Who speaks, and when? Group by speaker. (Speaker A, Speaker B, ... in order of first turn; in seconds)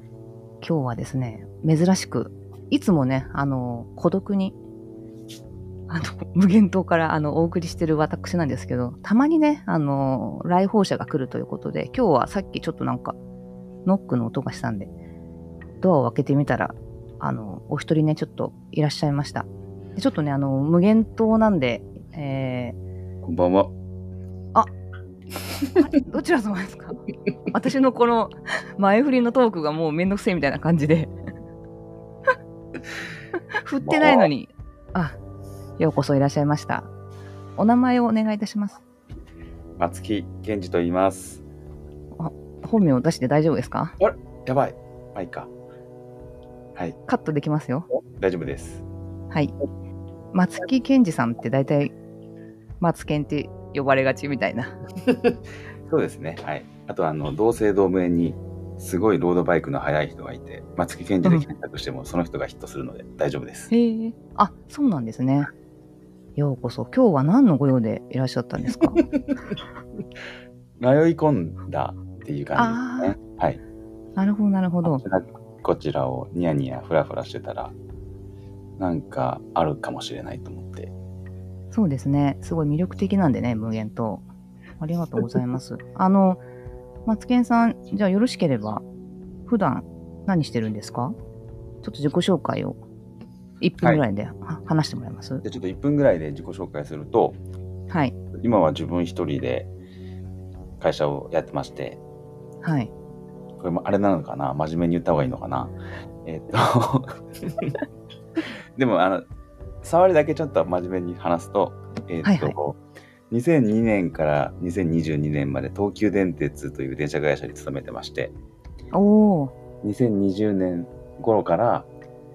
Speaker A: 0.6-4.6, 5.9-13.2, 13.8-14.9, 15.8-22.8, 25.8-31.1, 33.6-35.2, 35.8-36.9, 37.6-38.8, 42.2-44.0, 47.1-47.9, 50.3-51.9, 52.8-54.8, 63.7-65.5, 66.4-69.0, 72.6-73.2, 74.2-75.0, 81.7-84.2, 84.8-86.4, 87.1-88.8, 89.5-91.2, 91.8-92.8, 93.6-95.4, 97.9-98.2, 102.6-102.9, 112.2-112.6, 118.9-119.5
Speaker B: 23.2-23.7, 33.8-34.3, 39.8-41.4, 44.0-45.5, 48.1-48.8, 55.1-63.7, 70.8-73.6, 74.8-77.7, 78.8-80.9, 95.4-97.4, 98.3-99.7, 100.8-102.0, 103.6-107.8, 108.8-109.2, 109.8-112.8, 113.3-118.3, 119.8-121.9